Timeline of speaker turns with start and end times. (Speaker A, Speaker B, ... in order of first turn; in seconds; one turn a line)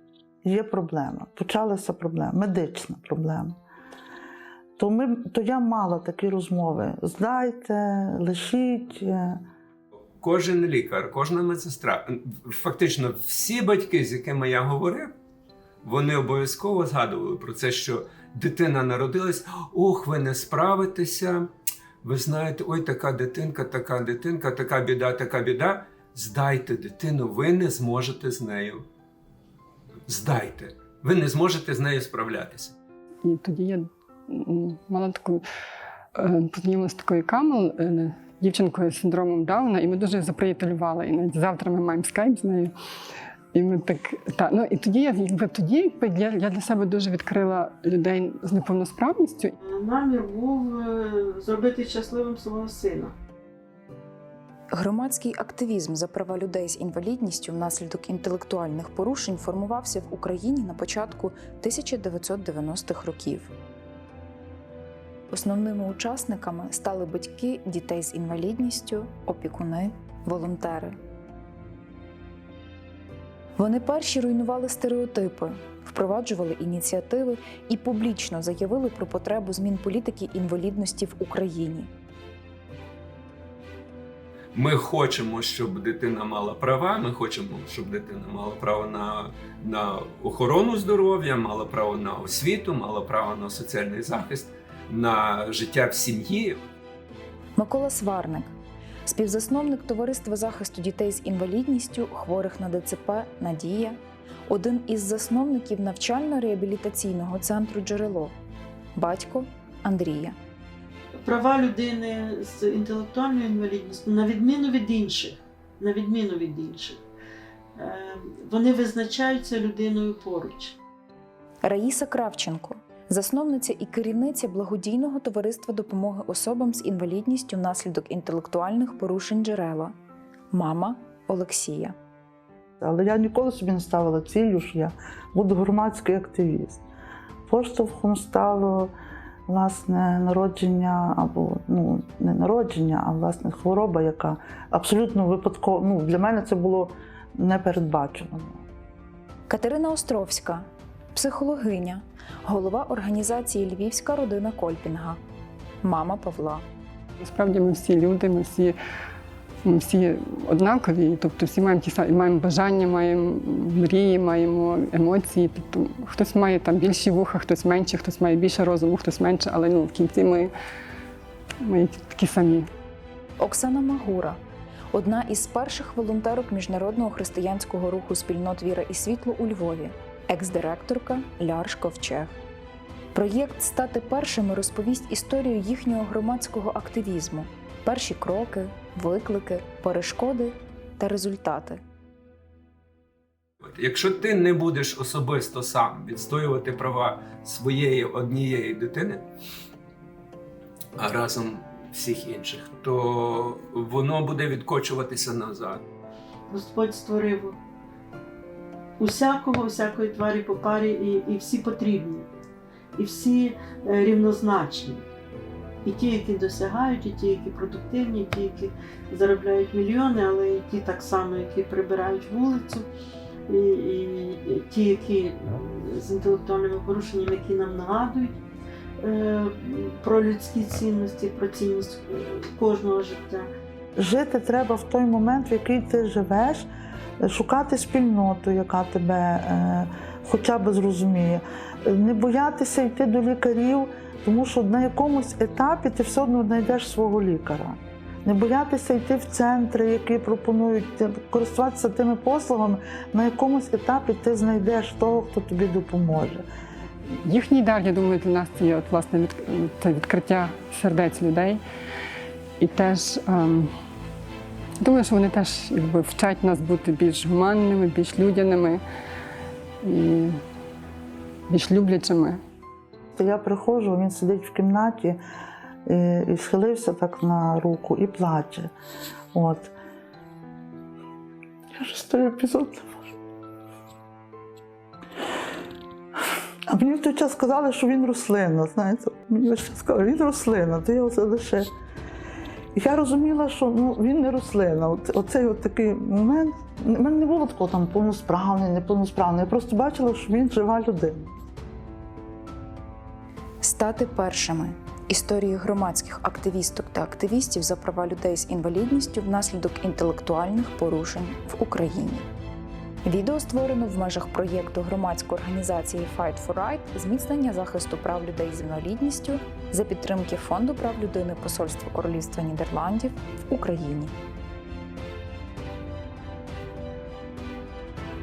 Speaker A: 0.4-3.6
Speaker A: 4.8-9.4
Speaker B: 10.2-15.1
Speaker B: 15.8-21.5
Speaker B: 22.0-28.9
Speaker B: 30.1-32.8
Speaker C: 33.2-35.4
Speaker C: 36.1-42.7
Speaker C: 43.5-49.6
Speaker D: 49.6-53.1
Speaker E: 54.7-63.5
Speaker E: 65.3-71.0
Speaker E: 73.6-81.9
Speaker B: 84.5-96.6
Speaker E: 97.6-98.5
Speaker E: 99.1-108.3
Speaker E: 109.0-110.4
Speaker D: 111.2-117.0
Speaker D: 117.8-120.8
Speaker E: 121.6-129.9
Speaker E: 130.5-132.0
Speaker A: 132.8-136.8
Speaker A: 137.5-138.9
Speaker A: 139.5-148.7
Speaker E: 149.5-155.2
Speaker E: 155.8-156.7
Speaker C: 157.2-158.8
Speaker C: 159.6-170.5
Speaker C: 171.6-172.7
Speaker E: 173.4-174.4
Speaker E: 174.9-182.4
Speaker E: 183.1-191.8
Speaker B: 193.6-199.3
Speaker B: 201.0-205.8
Speaker D: 206.5-207.6
Speaker D: 209.0-212.3
Speaker D: 213.0-215.1
Speaker D: 215.8-222.9
Speaker D: 223.5-228.4
Speaker D: 229.0-233.5
Speaker A: 234.0-236.7
Speaker A: 237.2-256.4
Speaker C: 257.2-261.6
Speaker C: 262.6-263.7
Speaker C: 264.8-268.8
Speaker C: 269.8-270.4
Speaker C: 271.5-272.4
Speaker A: 273.1-275.2
Speaker A: 275.9-278.7
Speaker A: 279.3-279.7
Speaker A: 281.8-283.0
Speaker A: 286.7-291.7
Speaker A: 292.8-301.4
Speaker E: 303.6-312.3
Speaker E: 313.0-324.1